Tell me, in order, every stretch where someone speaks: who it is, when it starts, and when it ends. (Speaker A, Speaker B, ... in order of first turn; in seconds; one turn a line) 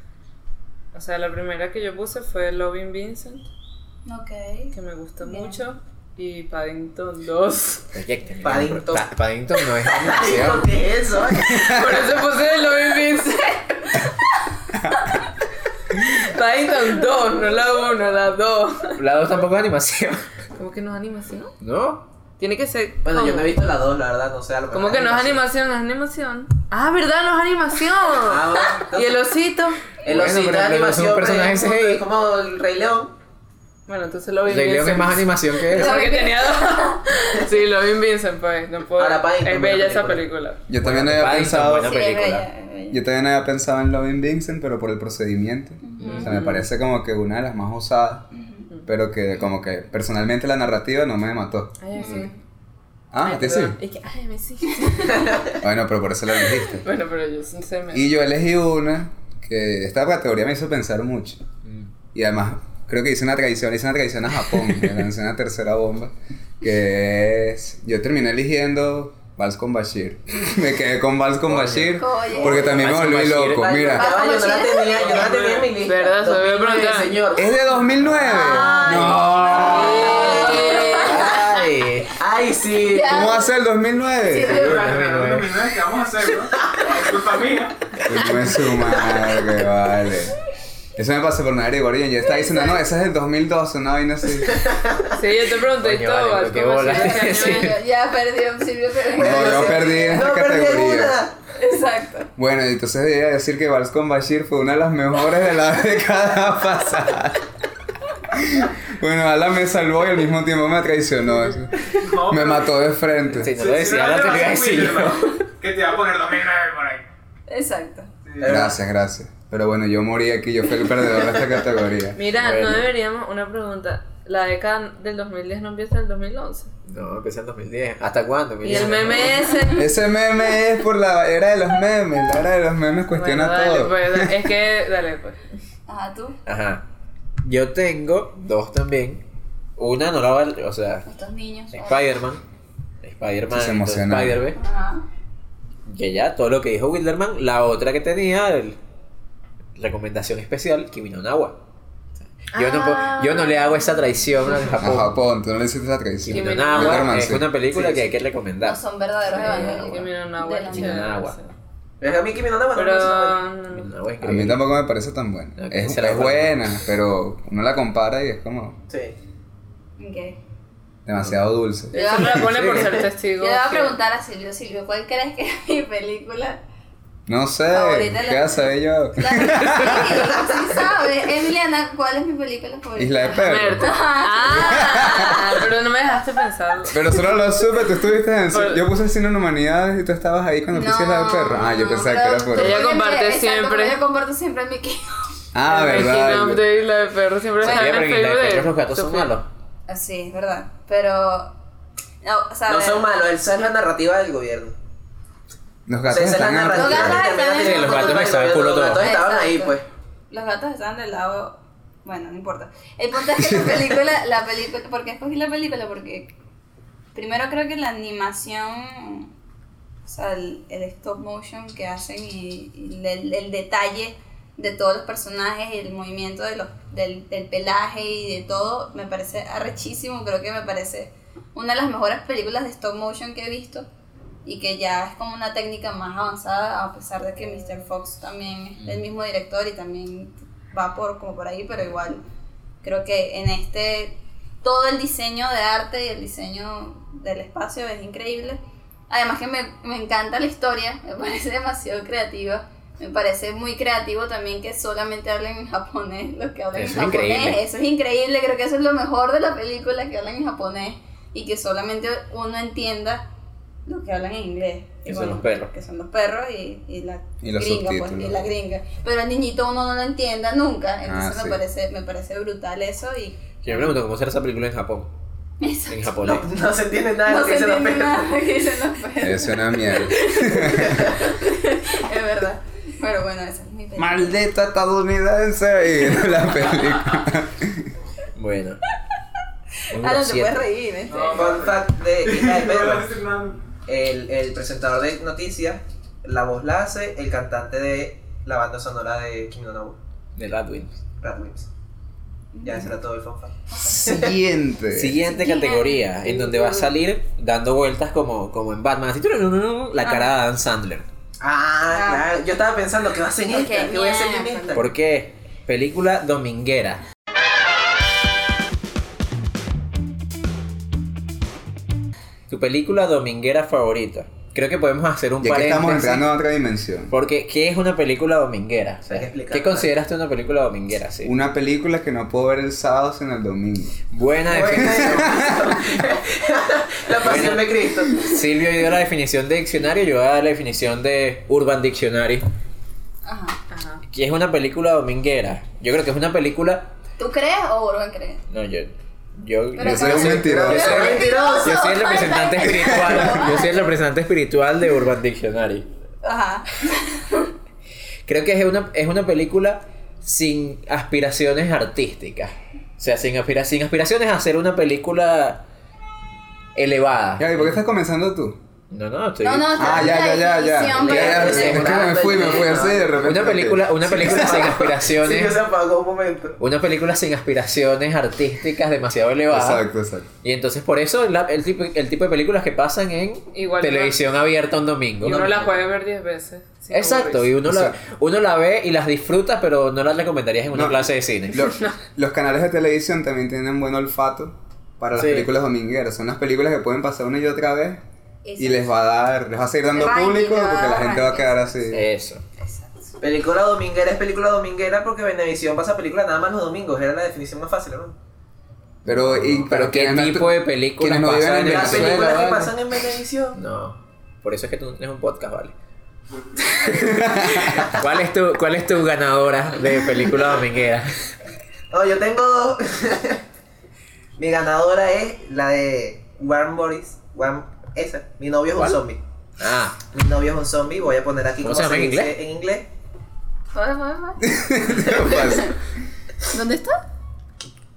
Speaker A: 0.9-3.5
Speaker B: 4.0-5.6
Speaker A: 4.7-7.9
Speaker C: 7.9-10.7
Speaker D: 8.4-9.1
Speaker D: 9.8-12.0
Speaker E: 11.5-11.8
Speaker A: 11.5-14.1
Speaker A: 16.0-19.0
Speaker C: 19.0-20.2
Speaker A: 20.6-21.5
Speaker C: 21.6-22.1
Speaker A: 22.4-23.6
Speaker D: 23.0-25.4
Speaker A: 24.7-30.0
Speaker D: 28.2-29.2
Speaker D: 30.0-33.1
Speaker C: 30.0-32.0
Speaker A: 33.9-40.6
Speaker C: 34.5-36.0
Speaker B: 35.7-37.0
Speaker D: 39.0-40.2
Speaker E: 40.7-42.0
Speaker C: 40.8-42.5
Speaker B: 41.8-43.0
Speaker E: 42.9-48.3
Speaker B: 45.8-46.3
Speaker A: 46.1-46.7
Speaker B: 48.3-48.7
Speaker E: 48.9-51.7
Speaker A: 51.8-52.3
Speaker B: 51.9-52.3
Speaker E: 53.1-53.8
Speaker A: 53.2-55.6
Speaker E: 55.6-56.8
Speaker A: 56.7-58.1
Speaker E: 57.9-61.4
Speaker C: 61.6-61.9
Speaker E: 62.1-74.1
Speaker C: 71.5-73.8
Speaker B: 72.0-72.8
Speaker B: 73.7-75.2
Speaker D: 73.8-77.5
Speaker F: 74.9-75.8
Speaker A: 75.8-77.1
Speaker E: 77.3-79.7
Speaker B: 78.2-81.6
Speaker C: 78.8-82.1
Speaker D: 79.5-80.7
Speaker A: 79.6-81.3
Speaker D: 82.2-83.3
Speaker B: 82.9-83.5
Speaker E: 83.0-84.7
Speaker B: 84.2-85.0
Speaker F: 84.4-87.9
Speaker C: 84.7-85.5
Speaker E: 88.0-90.3
Speaker E: 91.0-94.6
Speaker B: 92.2-92.9
Speaker D: 94.5-95.1
Speaker A: 95.1-97.7
Speaker C: 95.8-97.8
Speaker B: 96.8-100.3
Speaker D: 99.1-101.3
Speaker E: 99.2-101.2
Speaker B: 101.5-102.3
Speaker E: 102.3-107.5
Speaker E: 108.3-113.5
Speaker F: 112.0-112.7
Speaker C: 113.3-115.5
Speaker F: 113.5-117.1
Speaker B: 117.5-118.1
Speaker F: 118.2-118.6
Speaker D: 118.4-118.8
Speaker E: 118.4-122.2
Speaker A: 122.2-126.7
Speaker C: 122.4-122.9
Speaker C: 126.8-129.5
Speaker A: 128.6-129.9
Speaker E: 129.7-134.4
Speaker A: 133.1-135.4
Speaker B: 135.9-136.4
Speaker C: 136.4-136.8
Speaker C: 137.4-139.2
Speaker C: 139.8-141.1
Speaker B: 141.1-142.1
Speaker C: 141.7-142.4
Speaker C: 143.0-144.6
Speaker E: 143.5-144.4
Speaker B: 144.5-145.1
Speaker C: 145.8-148.8
Speaker C: 149.8-151.6
Speaker C: 152.5-155.1
Speaker A: 152.5-154.7
Speaker E: 154.8-157.5
Speaker C: 156.3-158.8
Speaker A: 156.3-157.2
Speaker D: 157.7-158.1
Speaker B: 158.6-161.1
Speaker A: 159.3-161.5
Speaker C: 159.4-159.9
Speaker C: 160.7-161.4
Speaker D: 162.0-163.4
Speaker A: 162.7-163.9
Speaker C: 163.7-164.7
Speaker E: 164.2-168.8
Speaker C: 165.6-166.7
Speaker D: 168.9-169.2
Speaker B: 170.0-170.4
Speaker E: 171.1-172.2
Speaker A: 171.9-173.9
Speaker B: 171.9-172.7
Speaker C: 172.2-173.1
Speaker B: 173.4-176.6
Speaker E: 177.3-180.3
Speaker B: 177.7-185.4
Speaker E: 183.0-183.9
Speaker A: 183.3-187.3
Speaker E: 184.6-185.4
Speaker E: 186.9-192.8
Speaker A: 188.5-188.8
Speaker B: 190.7-195.3
Speaker A: 192.5-194.0
Speaker E: 195.5-196.6
Speaker A: 195.7-199.3
Speaker C: 197.6-199.5
Speaker B: 199.9-201.5
Speaker B: 202.2-203.1
Speaker D: 202.7-204.8
Speaker E: 205.9-207.3
Speaker D: 206.1-209.8
Speaker B: 206.7-209.8
Speaker C: 207.6-209.1
Speaker B: 210.3-216.3
Speaker B: 217.1-219.3
Speaker B: 220.0-233.9
Speaker B: 234.4-242.2
Speaker B: 242.8-263.3
Speaker C: 256.7-257.6
Speaker B: 263.9-273.9
Speaker C: 265.1-265.7
Speaker E: 267.4-268.4
Speaker E: 271.1-271.6
Speaker C: 273.6-275.1
Speaker B: 275.6-276.1
Speaker C: 275.9-276.5
Speaker D: 276.2-278.3
Speaker B: 277.2-284.4
Speaker E: 279.2-281.1
Speaker D: 280.8-281.1
Speaker E: 283.9-287.9
Speaker C: 288.4-288.8
Speaker C: 289.9-290.6
Speaker B: 289.9-291.5
Speaker F: 291.1-293.6
Speaker D: 291.3-293.1
Speaker D: 293.9-300.0
Speaker C: 300.4-301.0
Speaker D: 301.2-301.7
Speaker B: 302.5-302.9
Speaker D: 302.6-304.3
Speaker B: 303.7-304.0
Speaker E: 303.9-305.2
Speaker C: 304.9-311.1
Speaker B: 305.2-306.9
Speaker B: 310.0-310.3
Speaker D: 311.4-314.9
Speaker B: 311.9-312.2
Speaker B: 313.5-314.9
Speaker C: 314.7-317.0
Speaker C: 322.5-326.3
Speaker E: 325.4-327.1
Speaker C: 327.1-331.3
Speaker D: 329.1-329.9
Speaker E: 331.2-334.0
Speaker C: 334.1-335.3
Speaker D: 334.5-338.2
Speaker E: 334.7-335.7
Speaker C: 337.1-342.4
Speaker B: 343.2-343.6
Speaker A: 343.7-344.0
Speaker C: 344.1-346.9
Speaker B: 347.2-348.4
Speaker C: 348.5-355.9
Speaker B: 349.8-353.9
Speaker E: 349.8-351.1
Speaker D: 350.5-352.1
Speaker E: 352.7-353.4
Speaker B: 356.2-357.5
Speaker C: 358.2-365.6
Speaker C: 366.7-367.8
Speaker E: 367.4-368.6
Speaker C: 368.9-370.2
Speaker B: 369.4-371.8
Speaker E: 369.7-374.6
Speaker D: 371.0-373.2
Speaker C: 371.1-372.1
Speaker C: 373.2-375.6
Speaker D: 374.1-376.6
Speaker C: 376.6-379.8
Speaker E: 379.5-380.3
Speaker C: 380.4-385.8
Speaker A: 383.5-384.2
Speaker A: 385.2-387.6
Speaker C: 386.9-391.7
Speaker E: 387.6-387.9
Speaker E: 390.7-398.0
Speaker C: 395.1-395.5
Speaker B: 398.4-398.9
Speaker E: 398.6-402.1
Speaker B: 399.9-401.8
Speaker C: 401.9-402.4
Speaker B: 402.6-403.2
Speaker D: 403.2-408.1
Speaker E: 409.0-412.7
Speaker C: 409.1-412.4
Speaker D: 411.6-413.6
Speaker C: 413.5-415.7
Speaker C: 416.7-421.3
Speaker E: 416.9-417.9
Speaker D: 421.9-423.4
Speaker D: 424.4-429.2
Speaker C: 429.6-430.0
Speaker D: 430.1-432.9
Speaker C: 431.6-432.3
Speaker B: 433.7-435.7
Speaker E: 434.4-435.8
Speaker B: 436.5-437.0